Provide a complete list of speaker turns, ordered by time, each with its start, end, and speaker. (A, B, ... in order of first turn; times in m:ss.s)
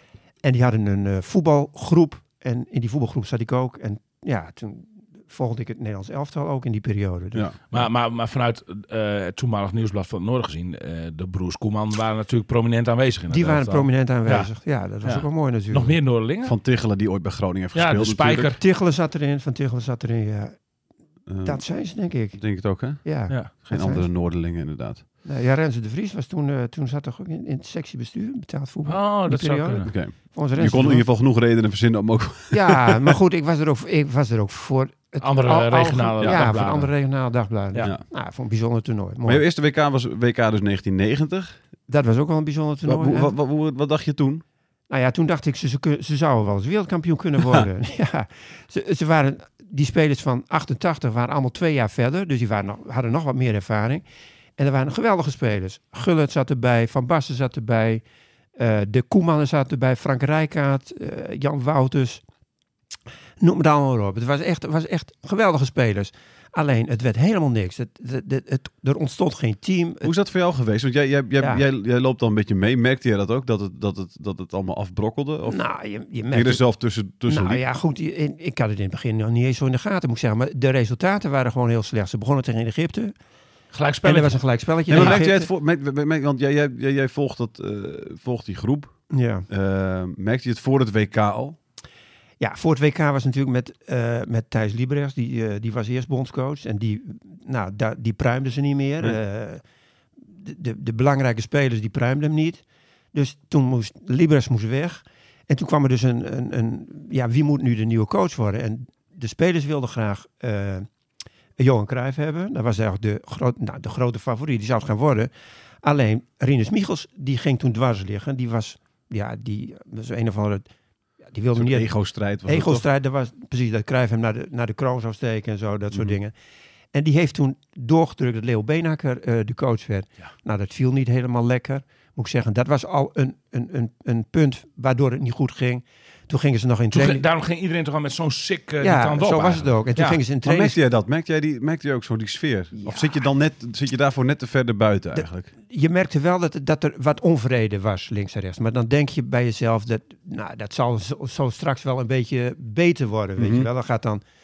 0:00.4-0:07.8 A
0:07.7-0:14.5 B
0:13.3-0:16.0 A
0:15.0-0:16.6 B
0:16.4-0:18.5 C
0:17.7-0:18.6 B
0:18.6-0:20.6 A
0:21.3-0:21.6 C
0:21.4-0:24.1 A
0:22.3-0:25.0 C
0:25.2-0:31.1 A
0:28.8-0:29.9 B
0:29.9-0:33.1 C
0:32.5-0:39.4 A
0:35.2-0:36.9 B
0:36.2-0:36.5 C
0:39.2-0:41.6 C
0:41.9-0:43.3 A
0:42.8-0:44.4 C
0:44.9-0:54.0 A
0:54.6-0:58.0 A
0:58.6-1:02.2 A
1:03.4-1:10.1 A
1:10.0-1:15.6 C
1:15.5-1:16.6 A
1:16.3-1:17.6 C
1:17.2-1:23.1 A
1:23.7-1:24.4 B
1:24.0-1:25.5 A
1:24.9-1:31.6 C
1:24.9-1:25.2 B
1:29.1-1:29.4 A
1:32.4-1:39.6 A
1:40.3-1:50.9 A
1:51.6-1:55.3 A
1:55.8-2:00.7 A
2:01.3-2:01.9 A
2:01.5-2:02.8 C
2:02.4-2:06.3 A
2:06.9-2:17.2 A
2:16.9-2:20.2 B
2:18.8-2:20.8 A
2:20.4-2:25.5 C
2:22.8-2:23.2 A
2:25.2-2:34.2 A
2:33.4-2:33.7 C